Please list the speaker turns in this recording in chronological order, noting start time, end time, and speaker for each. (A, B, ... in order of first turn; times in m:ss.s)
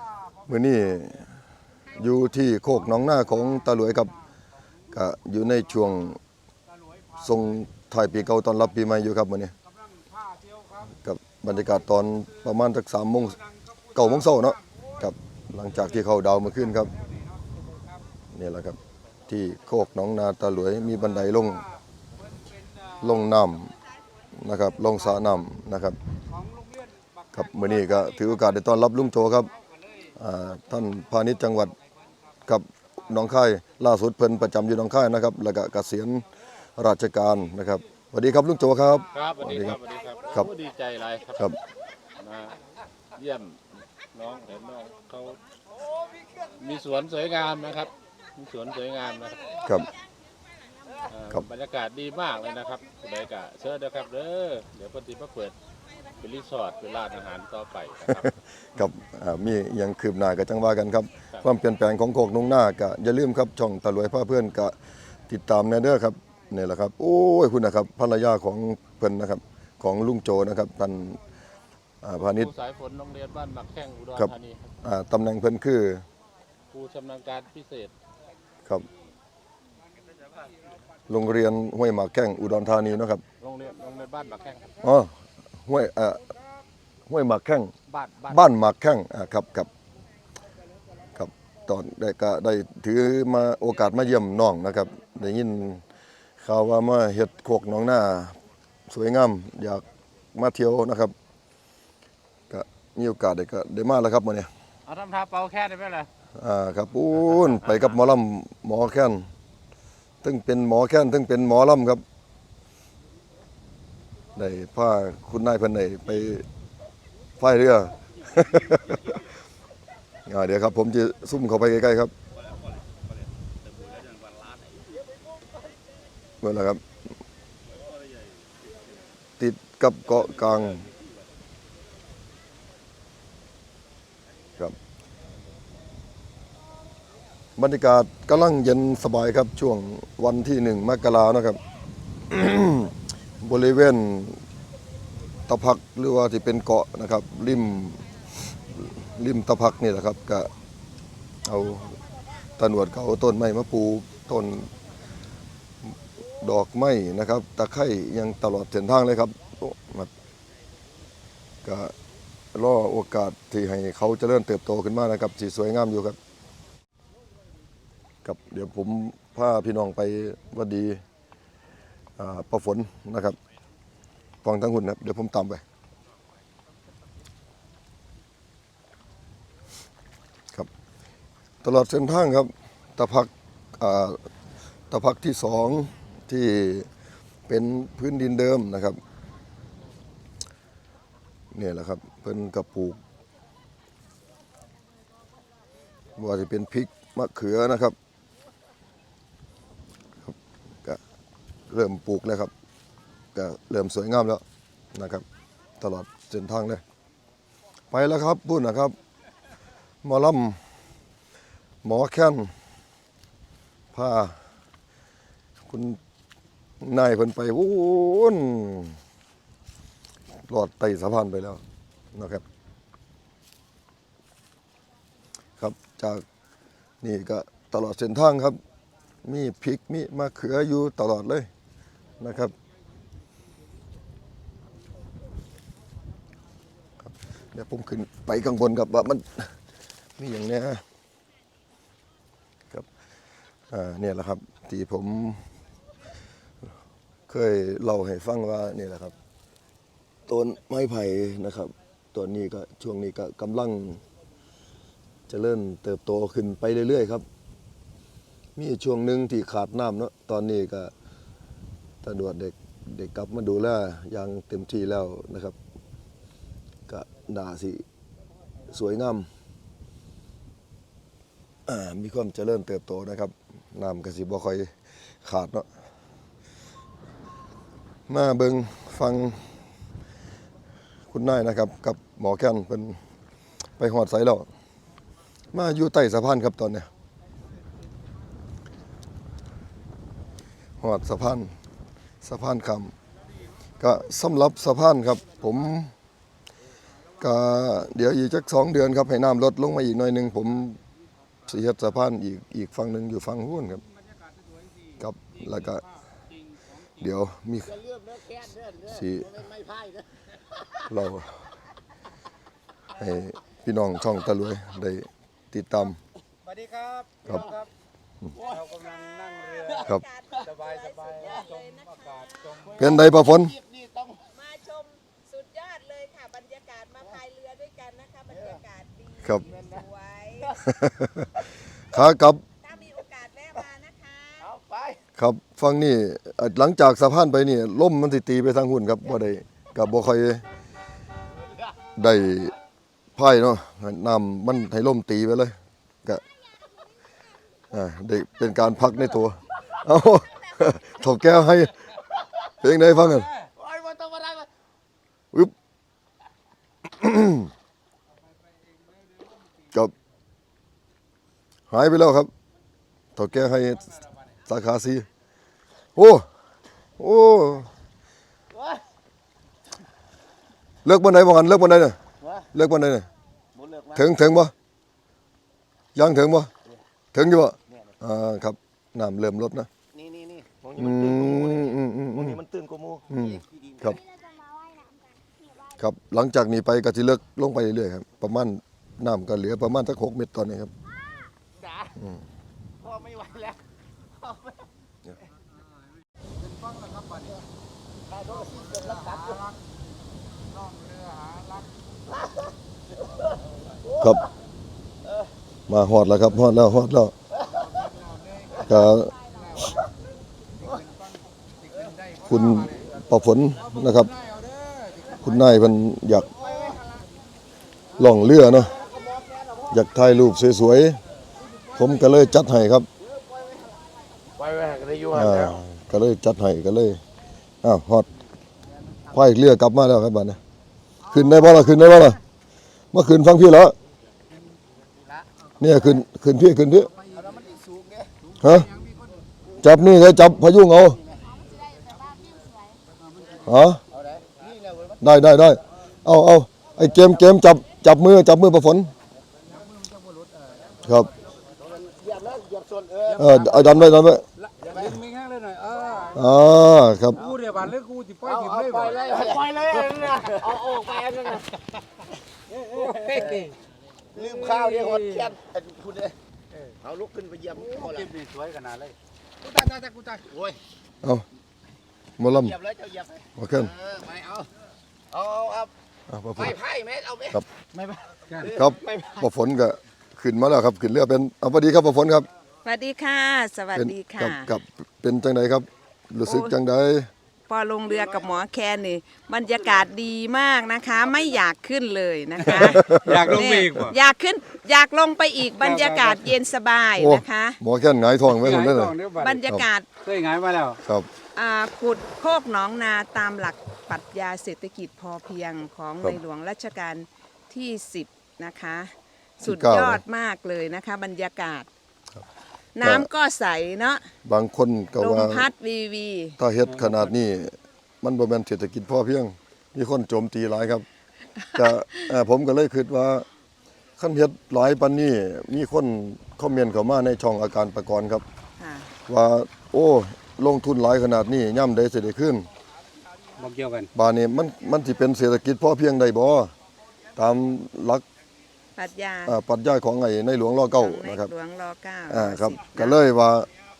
0:00.5-0:01.3 A
0:01.9-0:04.1 A
0:04.9-0:06.2 A
0:07.2-0:09.5 A
0:10.8-0:13.4 A
0:13.9-0:16.9 A
0:18.3-0:18.8 A
0:19.3-0:21.7 A
0:23.0-0:23.7 A
0:24.3-0:26.0 A
0:27.3-0:29.5 A
0:30.2-0:31.7 A
0:32.4-0:36.2 A
0:36.8-0:39.8 A
0:39.1-0:41.5 B
0:42.2-0:42.6 B
0:43.2-0:45.4 B
0:46.6-0:49.5 B
0:51.1-0:55.5 B
0:56.2-0:58.3 B
0:58.2-1:04.7 A
1:05.3-1:11.2 A
1:12.0-1:12.5 A
1:12.2-1:14.7 B
1:14.2-1:16.0 A
1:16.7-1:17.9 B
1:21.1-1:23.2 A
1:23.4-1:24.7 B
1:24.8-1:25.1 A
1:25.6-1:26.2 A
1:27.1-1:27.7 A
1:27.9-1:28.4 B
1:28.3-1:29.7 A
1:31.1-1:35.8 A
1:36.4-1:38.4 A
1:38.9-1:39.8 A
1:40.3-1:41.1 A
1:42.5-1:44.5 A
1:44.9-1:46.1 B
1:46.4-1:49.2 A
1:47.5-1:47.9 B
1:50.2-1:52.0 A
1:54.4-1:56.4 A
1:57.4-1:59.3 A
2:00.2-2:02.1 A
2:04.0-2:04.5 C
2:06.4-2:06.8 A
2:09.4-2:10.9 A
2:17.6-2:21.6 A
2:22.3-2:24.4 A
2:25.5-2:28.0 A
2:28.6-2:30.5 A
2:31.4-2:32.0 A
2:32.6-2:34.7 A
2:36.3-2:40.1 A
2:41.6-2:41.9 A
2:42.5-2:46.2 A
2:48.2-2:51.0 A
2:52.2-2:53.4 A
2:54.4-2:55.6 A
3:01.6-3:04.2 A
3:04.9-3:06.9 A
3:07.5-3:09.0 A
3:11.5-3:13.0 A
3:16.2-3:17.9 A
3:20.2-3:21.0 A
3:21.7-3:22.5 A
3:23.3-3:24.4 A
3:24.9-3:25.2 A
3:25.8-3:26.8 A
3:27.9-3:28.9 A
3:30.0-3:30.6 A
3:31.8-3:32.5 A
3:33.9-3:34.4 A
3:35.7-3:36.0 A
3:36.8-3:39.0 A
3:40.4-3:41.6 A
3:42.1-3:42.4 A
3:45.6-3:46.2 A
3:47.0-3:48.6 A
3:49.2-3:51.5 A
3:52.2-3:52.5 A
3:57.0-3:59.5 A
4:00.2-4:00.8 A
4:03.7-4:05.4 A
4:07.3-4:09.1 A
4:10.3-4:14.0 A
4:15.3-4:17.2 A
4:18.6-4:20.9 A
4:22.0-4:25.6 A
4:26.9-4:27.8 A
4:28.7-4:29.3 A
4:31.6-4:34.7 A
4:35.2-4:35.7 A
4:38.1-4:39.4 A
4:41.1-4:43.0 A
4:43.8-4:44.5 A
4:45.5-4:46.9 A
4:50.8-4:51.5 A
4:52.2-4:52.9 A
4:53.8-4:55.9 A
4:57.2-5:00.8 A
5:01.5-5:03.8 A
5:05.0-5:05.9 A
5:07.0-5:07.8 A
5:07.8-5:10.0 C
5:08.8-5:09.4 A
5:10.9-5:11.4 A
5:12.9-5:16.0 A
5:16.4-5:17.6 D
5:18.5-5:19.7 D
5:18.5-5:22.8 E
5:20.6-5:22.7 D
5:22.7-5:23.6 A
5:23.6-5:24.1 C
5:24.2-5:30.6 E
5:30.6-5:31.3 A
5:31.9-5:32.4 A
5:32.6-5:34.5 E
5:34.5-5:35.0 C
5:35.2-5:40.4 A
5:42.0-5:42.5 A
5:43.2-5:46.2 A
5:47.7-5:51.9 A
5:52.6-5:53.3 A
5:53.6-5:54.4 C
5:57.0-5:57.5 A
6:01.7-6:02.3 A
6:03.2-6:05.1 A
6:06.0-6:06.2 A
6:07.0-6:07.7 A
6:10.8-6:12.0 A
6:12.5-6:13.1 A
6:13.6-6:14.0 C
6:13.9-6:14.5 A
6:15.9-6:16.5 A
6:17.1-6:19.7 A
6:20.0-6:23.0 C
6:20.7-6:22.4 A
6:23.1-6:24.0 A
6:25.7-6:30.7 A
6:32.0-6:32.2 A
6:32.8-6:33.6 C
6:38.3-6:39.3 C
6:45.7-6:47.1 A
6:48.6-6:49.1 A
6:52.2-6:54.1 A
6:55.2-6:56.3 A
6:56.5-6:56.8 C
6:58.0-6:58.8 A
6:59.7-7:01.0 A
7:01.7-7:02.9 A
7:04.4-7:05.2 C
7:05.1-7:07.0 A
7:07.6-7:08.1 A
7:09.1-7:10.4 A
7:11.1-7:12.2 A
7:12.9-7:13.7 A
7:15.6-7:16.9 A
7:17.2-7:18.1 C
7:18.4-7:18.7 A
7:19.6-7:21.0 A
7:23.4-7:23.8 A
7:24.0-7:24.8 C
7:25.0-7:28.9 A
7:29.7-7:30.5 D
7:30.8-7:31.1 A
7:31.8-7:33.7 C
7:33.2-7:34.2 A
7:34.6-7:36.1 D
7:34.7-7:35.0 C
7:36.1-7:37.2 A
7:37.2-7:40.4 D
7:38.3-7:41.4 C
7:42.7-7:43.5 D
7:43.2-7:43.5 C
7:44.2-7:45.3 D
7:44.2-7:46.1 C
7:46.8-7:48.1 C
7:47.6-7:50.2 D
7:52.2-7:52.6 A
7:52.5-7:53.2 C
7:53.4-7:53.7 A
7:53.8-7:54.4 C
7:55.1-7:55.7 C
7:56.1-7:56.6 A
7:56.5-7:57.3 C
7:58.4-8:02.3 A
7:58.4-7:59.2 C
8:02.6-8:04.5 E
8:03.7-8:07.1 A
8:06.2-8:06.5 E
8:07.5-8:17.6 E
8:12.4-8:13.7 A
8:13.0-8:13.9 D
8:15.6-8:16.2 D
8:17.0-8:18.9 A
8:18.4-8:19.4 D
8:19.2-8:19.9 E
8:20.0-8:20.8 D
8:21.3-8:31.7 E
8:29.4-8:30.0 A
8:32.8-8:34.0 E
8:32.8-8:33.1 A
8:34.2-8:35.5 A
8:34.9-8:36.4 E
8:36.4-8:40.8 A
8:36.7-8:37.0 D
8:41.4-8:42.0 E
8:41.5-8:43.2 A
8:44.0-8:48.2 A
8:48.6-8:48.9 E
8:49.1-8:52.5 A
8:53.4-8:53.9 D
8:53.9-8:56.5 A
8:57.2-8:58.0 A
8:58.8-8:59.4 E
8:59.2-9:01.3 A
9:00.8-9:03.0 E
9:02.1-9:03.5 A